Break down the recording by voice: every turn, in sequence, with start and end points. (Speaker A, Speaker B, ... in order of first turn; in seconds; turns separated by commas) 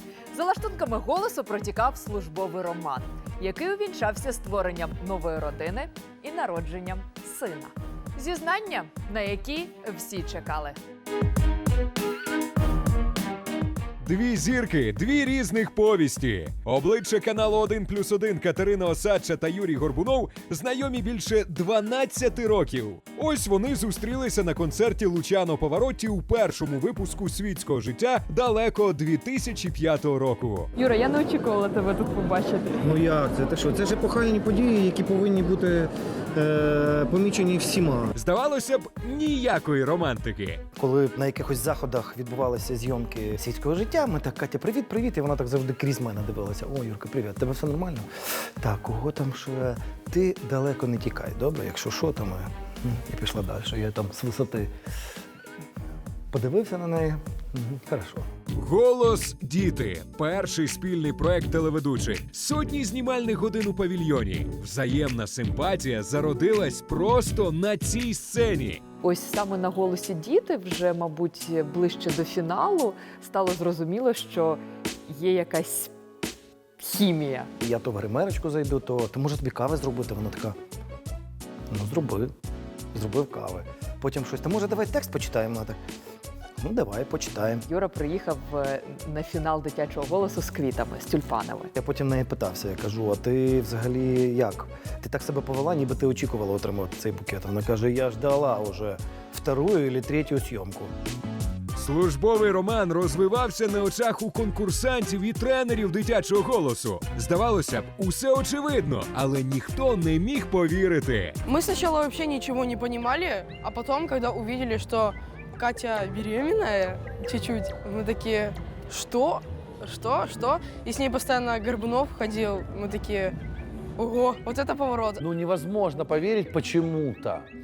Speaker A: 0.3-10.8, Speaker B: 14.0-30.7, Speaker A: 30.8-32.8, Speaker C: 32.8-38.1, Speaker B: 38.2-40.6, Speaker C: 40.8-48.1, Speaker C: 48.6-54.7, Speaker C: 56.3-58.2, Speaker B: 58.5-68.8, Speaker A: 69.0-75.9, Speaker A: 76.8-77.5, Speaker C: 77.6-80.5, Speaker C: 81.7-82.3, Speaker C: 82.9-85.8, Speaker C: 86.6-87.7, Speaker A: 87.7-91.7, Speaker C: 91.8-100.9, Speaker B: 101.8-111.3, Speaker D: 111.5-123.4, Speaker D: 124.0-125.2, Speaker E: 125.2-127.5